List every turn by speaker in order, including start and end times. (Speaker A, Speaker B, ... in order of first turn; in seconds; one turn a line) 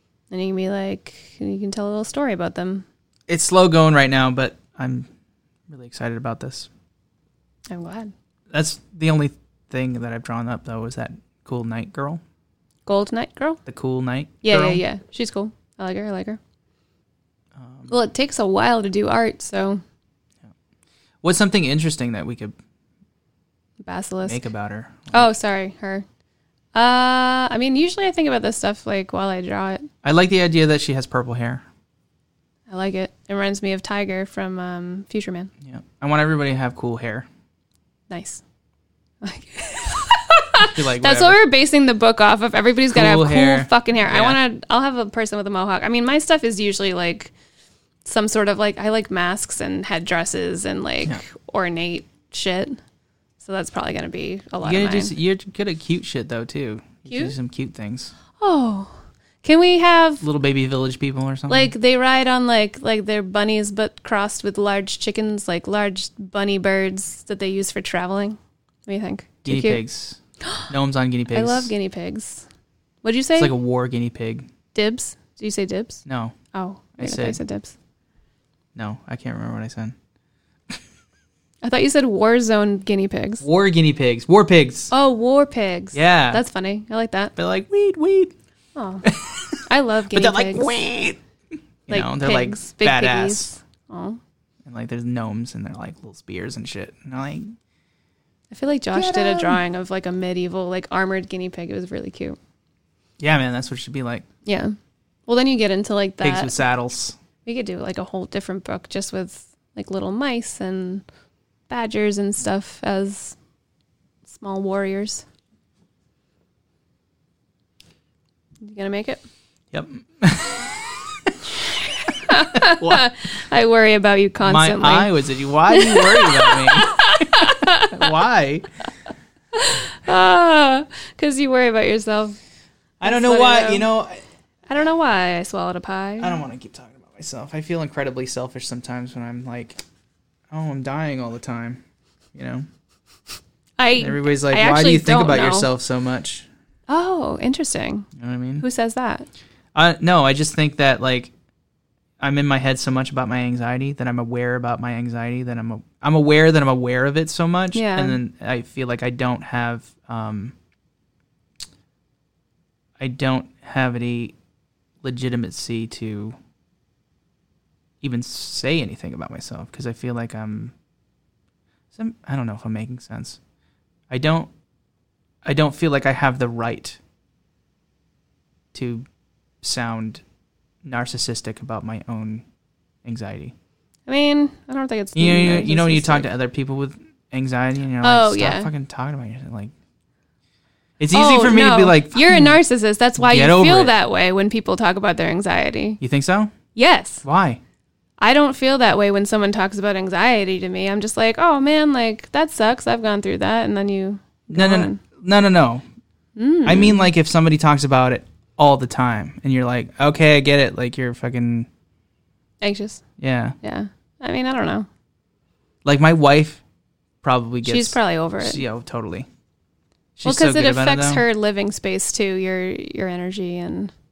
Speaker A: 0.3-2.8
Speaker B: 3.3-5.1
Speaker B: 5.7-6.7
Speaker A: 7.7-8.1
Speaker B: 8.5-12.2
Speaker A: 12.9-13.6
Speaker B: 13.7-14.8
Speaker A: 14.4-16.4
Speaker B: 17.6-17.9
Speaker A: 17.9-19.8
Speaker B: 21.2-22.6
Speaker A: 23.8-24.4
Speaker B: 24.2-25.3
Speaker A: 25.1-26.1
Speaker A: 26.7-29.9
Speaker B: 30.0-31.6
Speaker A: 32.7-35.5
Speaker B: 35.6-37.3
Speaker A: 38.1-38.4
Speaker A: 39.2-47.3
Speaker B: 40.6-41.4
Speaker B: 42.9-44.4
Speaker A: 48.0-52.8
Speaker A: 53.4-55.1
Speaker B: 54.6-58.1
Speaker A: 57.1-57.3
Speaker A: 58.4-60.2
Speaker B: 60.2-61.7
Speaker A: 61.5-69.8
Speaker B: 69.4-71.7
Speaker A: 71.3-72.5
Speaker A: 73.0-73.5
Speaker B: 73.4-74.5
Speaker A: 74.7-77.7
Speaker B: 76.0-76.3
Speaker B: 77.0-77.4
Speaker B: 78.7-79.9
Speaker A: 81.6-83.4
Speaker B: 83.4-84.9
Speaker A: 84.9-87.3
Speaker B: 85.9-86.4
Speaker B: 87.4-88.3
Speaker A: 88.7-89.1
Speaker B: 89.0-91.2
Speaker A: 89.7-90.7
Speaker B: 91.9-93.5
Speaker A: 91.9-94.2
Speaker B: 94.6-97.5
Speaker A: 98.5-102.4
Speaker B: 98.9-99.6
Speaker B: 103.2-104.3
Speaker A: 104.4-104.8
Speaker A: 105.3-106.5
Speaker B: 106.2-107.2
Speaker A: 107.4-111.0
Speaker A: 111.7-113.4
Speaker A: 114.3-115.2
Speaker A: 118.6-119.2
Speaker B: 119.7-123.1
Speaker A: 122.1-125.1
Speaker B: 124.4-128.7
Speaker A: 125.7-128.1
Speaker A: 129.5-132.4
Speaker B: 133.0-134.2
Speaker A: 133.0-133.9
Speaker A: 134.7-136.4
Speaker B: 136.2-139.8
Speaker B: 140.5-141.8
Speaker B: 142.3-142.7
Speaker A: 143.8-145.7
Speaker B: 144.0-146.5
Speaker A: 146.9-148.1
Speaker B: 148.2-148.6
Speaker A: 148.6-149.3
Speaker B: 149.7-151.3
Speaker B: 152.2-160.6
Speaker A: 157.7-158.2
Speaker B: 163.0-164.3
Speaker B: 165.0-166.4
Speaker B: 168.0-170.7
Speaker B: 171.9-173.4
Speaker B: 174.1-174.5
Speaker B: 175.4-177.0
Speaker B: 178.7-179.1
Speaker B: 179.6-180.2
Speaker B: 180.8-182.4
Speaker B: 183.0-183.5
Speaker A: 184.1-186.3
Speaker B: 185.1-189.7
Speaker A: 188.0-188.7
Speaker B: 191.0-192.6
Speaker A: 191.1-196.0
Speaker B: 193.2-193.9
Speaker B: 196.0-196.5
Speaker A: 196.7-197.2
Speaker B: 197.2-197.6
Speaker A: 198.2-205.0
Speaker B: 204.5-205.8
Speaker A: 206.3-207.0
Speaker B: 206.6-211.7
Speaker A: 212.6-213.0
Speaker B: 213.2-213.6
Speaker A: 213.6-214.9
Speaker B: 215.8-216.6
Speaker B: 217.2-219.3
Speaker A: 217.6-218.6
Speaker B: 220.2-221.2
Speaker A: 220.2-223.9